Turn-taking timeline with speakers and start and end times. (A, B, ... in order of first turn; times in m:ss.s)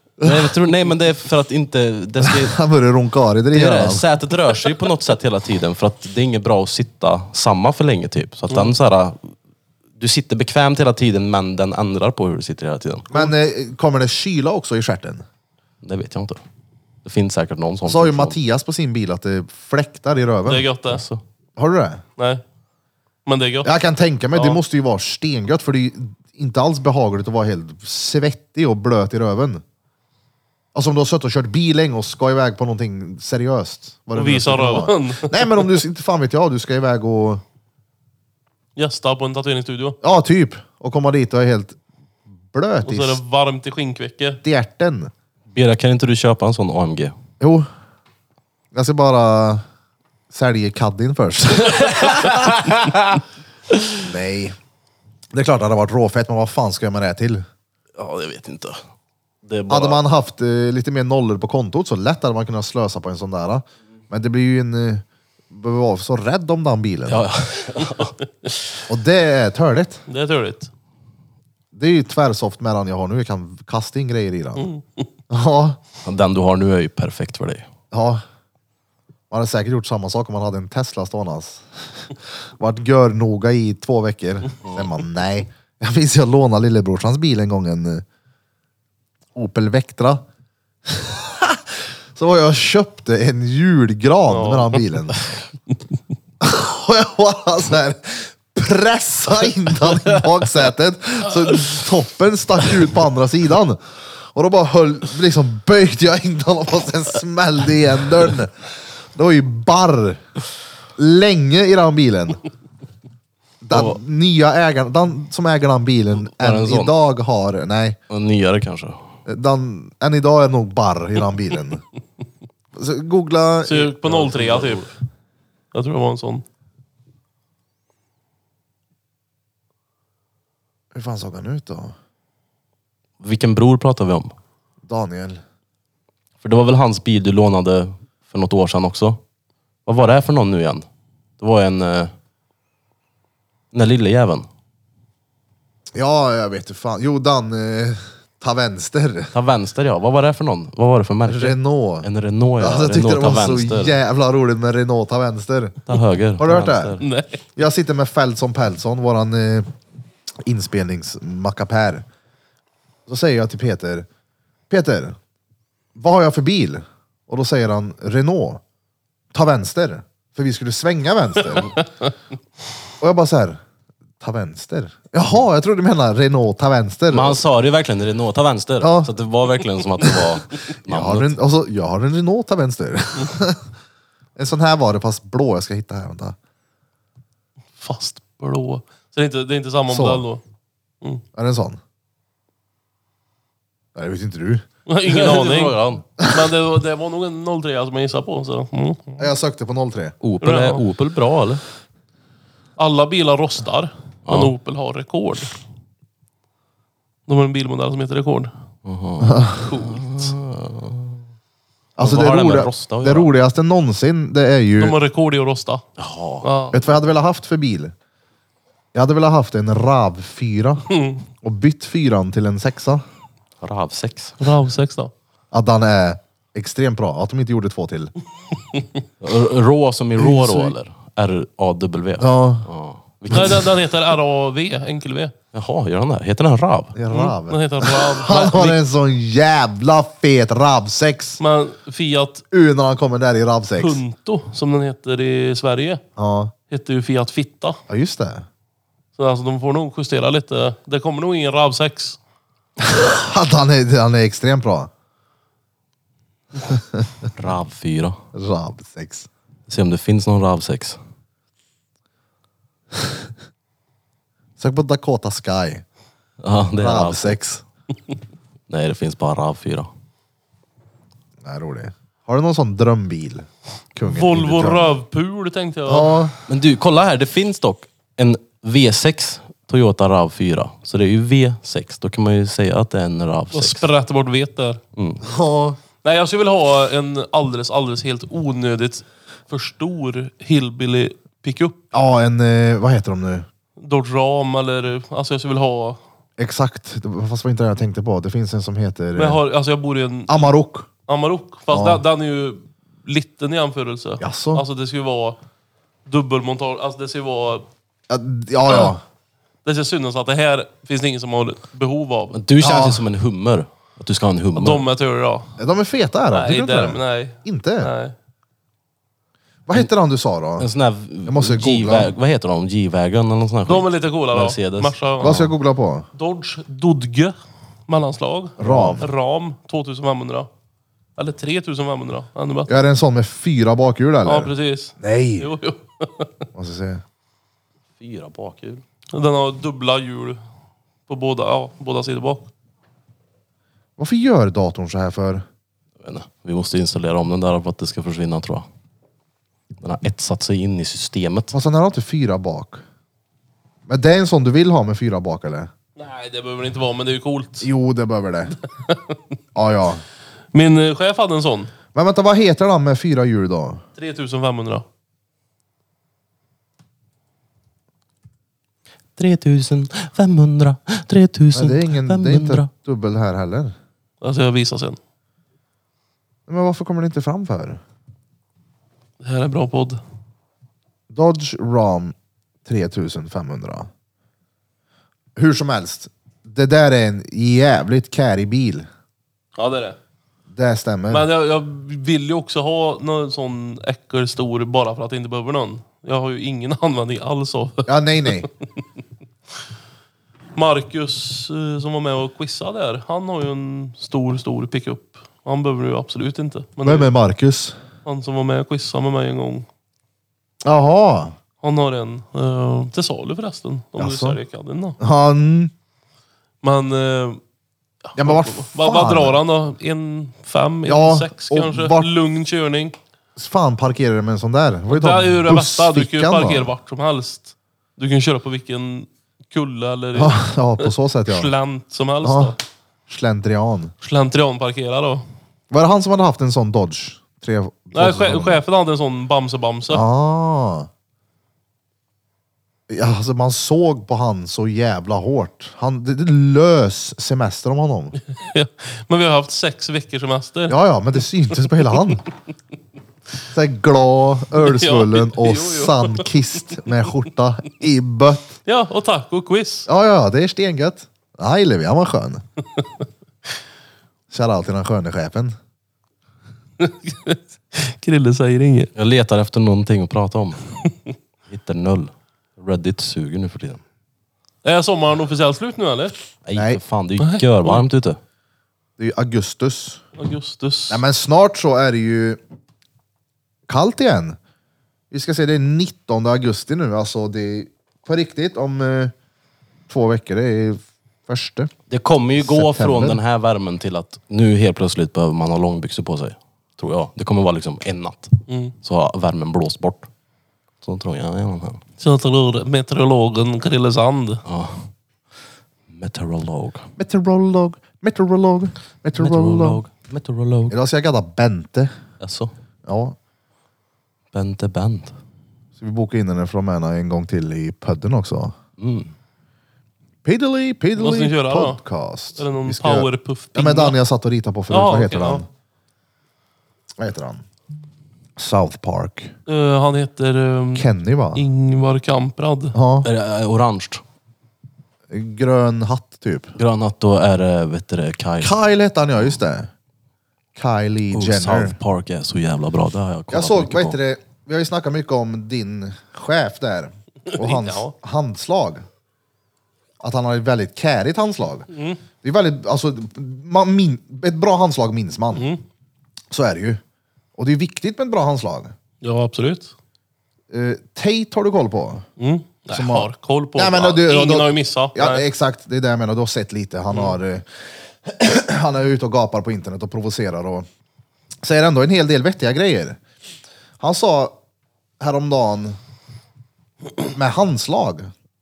0:00.2-0:00.5 A
0:00.2-0:02.6 B
0:02.2-0:04.0 A
0:03.5-0:09.3 B
0:10.0-0:13.1 B
0:13.1-0:15.2 A
0:15.8-0:16.4 B
0:17.0-0:18.4 B
0:17.8-0:20.7 A
0:20.5-0:21.0 C
0:20.9-0:21.2 B
0:21.6-0:22.0 A
0:23.3-0:23.7 C
0:23.6-0:29.6 A
0:24.3-0:24.6 C
0:30.7-0:37.4 A
0:34.2-0:35.7 C
0:38.8-0:40.0 C
0:40.0-0:41.8 A
0:42.5-0:43.2 A
0:42.8-0:44.4 C
0:44.4-0:45.1 A
0:45.5-0:47.2 B
0:47.4-0:47.7 A
0:48.7-0:49.6 A
0:50.3-0:52.5 A
0:52.0-0:53.2 B
0:54.0-0:54.6 A
0:55.3-0:57.5 A
0:58.0-0:58.8 B
0:59.4-1:00.0 B
0:59.7-1:07.3 A
1:07.1-1:08.2 B
1:08.9-1:10.0 A
1:10.1-1:10.7 C
1:11.7-1:14.7 A
1:14.6-1:15.0 C
1:15.3-1:15.8 A
1:16.0-1:17.7 B
1:17.9-1:18.2 A
1:19.3-1:28.0 A
1:29.4-1:30.2 A
1:30.9-1:35.3 A
1:34.3-1:34.9 C
1:36.4-1:48.6 A
1:49.2-1:50.2 A
1:51.0-1:52.4 A
1:53.6-1:58.0 A
1:53.7-1:54.0 B
1:56.3-1:56.9 B
1:58.1-1:59.0 B
1:59.3-2:01.8 A
2:02.8-2:04.6 A
2:03.7-2:04.9 C
2:04.2-2:04.8 B
2:05.7-2:06.4 C
2:10.9-2:12.0 A
2:13.2-2:14.3 B
2:14.9-2:15.4 A
2:16.4-2:19.2 B
2:19.9-2:20.9 B
2:21.4-2:22.1 B
2:23.7-2:24.5 B
2:26.0-2:29.3 A
2:29.3-2:34.0 B
2:31.3-2:32.1 A
2:32.6-2:35.8 A
2:35.9-2:37.0 B
2:36.4-2:37.0 A
2:37.0-2:37.5 C
2:37.6-2:39.7 A
2:40.4-2:42.0 A
2:43.1-2:44.1 A
2:44.7-2:45.2 A
2:46.0-2:48.6 A
2:49.3-2:51.8 A
2:53.0-2:53.6 A
2:54.2-2:57.4 A
2:57.1-3:01.4 B
2:58.8-2:59.1 A
3:00.9-3:03.6 A
3:04.4-3:06.4 A
3:07.8-3:10.4 C
3:09.9-3:10.2 A
3:11.4-3:11.8 A
3:14.0-3:14.6 A
3:14.9-3:19.3 C
3:15.1-3:16.0 B
3:19.2-3:20.2 A
3:20.2-3:21.6 B
3:20.4-3:20.8 C
3:22.8-3:25.6 C
3:24.3-3:24.5 B
3:27.3-3:28.5 C
3:28.8-3:31.2 B
3:29.2-3:29.7 A
3:29.7-3:30.3 C
3:32.0-3:35.0 A
3:32.0-3:33.3 B
3:34.8-3:35.8 C
3:36.0-3:36.5 B
3:36.4-3:36.8 C
3:36.7-3:37.9 A
3:38.9-3:40.9 A
3:40.9-3:41.2 C
3:41.4-3:43.0 A
3:43.6-3:44.4 B
3:44.4-3:45.1 C
3:45.5-3:48.1 A
3:49.2-3:53.7 B
3:50.2-3:50.7 A
3:52.2-3:52.7 A
3:53.3-3:55.3 C
3:55.5-3:57.0 B
3:57.0-4:01.4 A
3:57.1-3:58.8 C
4:01.4-4:02.4 C
4:02.5-4:04.0 A
4:03.8-4:06.0 C
4:06.2-4:06.5 A
4:06.7-4:07.8 C
4:07.9-4:08.5 A
4:09.2-4:12.2 C
4:12.8-4:14.9 A
4:16.7-4:17.1 A
4:17.4-4:18.2 B
4:18.3-4:19.3 A
4:19.7-4:21.0 B
4:24.6-4:25.8 A
4:26.4-4:27.4 B
4:26.8-4:27.6 A
4:28.7-4:29.9 B
4:31.4-4:34.9 A
4:34.0-4:36.2 C
4:35.9-4:36.4 A
4:36.5-4:43.9 B
4:43.5-4:44.8 C
4:45.0-4:45.2 B
4:45.2-4:45.8 A
4:46.0-4:51.8 C
4:51.9-4:53.5 A
4:53.8-4:56.0 C
4:56.4-4:59.4 A
4:59.2-5:00.4 C
5:00.3-5:00.9 A
5:01.1-5:05.4 C
5:01.7-5:02.0 A
5:04.2-5:04.6 A
5:06.1-5:07.7 C
5:08.1-5:09.0 A
5:09.6-5:12.4 C
5:12.3-5:14.9 B
5:12.6-5:13.0 A
5:14.6-5:15.5 C
5:15.6-5:17.9 A
5:16.3-5:18.2 C
5:19.7-5:20.7 A
5:20.6-5:25.0 B
5:21.3-5:22.1 A
5:23.7-5:25.5 C
5:25.2-5:26.1 A
5:26.2-5:27.4 C
5:27.9-5:30.5 C
5:28.6-5:29.1 A
5:28.7-5:29.0 B
5:31.2-5:32.7 C
5:32.7-5:35.5 A
5:34.2-5:36.4 C
5:36.6-5:37.0 A
5:38.0-5:38.8 B
5:39.1-5:40.4 C
5:41.1-5:42.5 C
5:44.0-5:45.4 A
5:46.0-5:48.7 B
5:49.8-5:51.5 B
5:51.5-5:52.8 A
5:53.9-5:55.7 A
5:56.0-5:57.7 C
5:57.6-5:58.6 A
5:58.9-5:59.2 C
5:59.6-6:00.0 A
6:00.5-6:01.7 C
6:01.9-6:03.8 A
6:04.0-6:04.8 C
6:09.2-6:12.7 B
6:11.5-6:13.8 A
6:14.2-6:15.0 C
6:16.5-6:17.8 A
6:19.2-6:20.0 C
6:21.1-6:22.1 A
6:22.6-6:23.9 A
6:25.4-6:28.9 A
6:29.6-6:30.0 C
6:30.5-6:31.3 A
6:31.1-6:38.5 C
6:37.9-6:38.5 A
6:40.6-6:47.1 C
6:46.8-6:47.8 A
6:48.0-6:49.7 C
6:50.6-6:51.4 A
6:51.6-6:55.0 C
6:54.0-6:54.4 A
6:55.0-6:55.7 A
6:56.6-6:57.4 C
6:58.1-7:03.0 C
6:58.2-6:59.4 A
7:00.9-7:02.1 A
7:03.4-7:06.7 A
7:04.9-7:12.6 C
7:10.2-7:11.5 A
7:12.2-7:12.6 A
7:13.1-7:13.9 A
7:14.0-7:15.2 C
7:15.7-7:18.6 A
7:18.0-7:20.0 C
7:19.9-7:20.9 A
7:22.9-7:28.2 A
7:28.3-7:30.8 C
7:30.7-7:32.2 A
7:31.7-7:32.2 C
7:33.5-7:38.6 A
7:34.6-7:36.3 C
7:38.7-7:39.9 C
7:39.9-7:42.4 A
7:44.3-7:45.6 A
7:46.8-7:48.9 C
7:49.0-7:50.6 B
7:51.5-7:53.8 B
7:54.6-7:56.2 C
7:56.4-7:58.2 B
7:56.6-7:56.8 A
7:57.2-7:57.8 C
7:59.0-8:00.0 A
8:00.2-8:01.0 C
8:00.9-8:02.4 A
8:03.7-8:04.4 A
8:05.1-8:09.1 A
8:09.9-8:11.7 A
8:11.9-8:20.1 B
8:12.4-8:13.2 A
8:18.5-8:18.8 C
8:20.8-8:21.8 B
8:22.0-8:24.4 C
8:24.4-8:24.9 B
8:25.9-8:26.9 B
8:27.0-8:29.8 A
8:29.2-8:30.8 B
8:30.7-8:31.9 A
8:32.2-8:32.5 B
8:32.9-8:33.2 A
8:34.3-8:35.2 B
8:35.8-8:38.6 A
8:38.8-8:39.1 B
8:40.2-8:45.5 A
8:41.0-8:41.8 C
8:42.4-8:44.0 C
8:44.7-8:45.4 C
8:47.0-8:47.4 A
8:48.4-8:49.3 A
8:49.5-8:52.8 C
8:50.8-8:51.4 A
8:52.7-8:53.1 A
8:53.0-8:54.0 B
8:55.1-8:56.6 A
8:56.6-8:58.5 B
8:58.4-8:59.7 A
9:00.6-9:01.8 A
9:01.1-9:04.0 B
9:03.3-9:08.8 A
9:07.3-9:07.9 C
9:10.0-9:11.7 A
9:11.7-9:12.0 C
9:12.2-9:15.5 A
9:15.3-9:15.6 C
9:16.3-9:16.8 A
9:17.4-9:18.8 A
9:19.0-9:19.7 C
9:20.5-9:22.1 A
9:22.2-9:25.2 C
9:22.7-9:27.5 A
9:28.0-9:30.7 A
9:31.4-9:33.0 A
9:33.8-9:34.4 A
9:35.0-9:35.8 A
9:37.1-9:38.1 A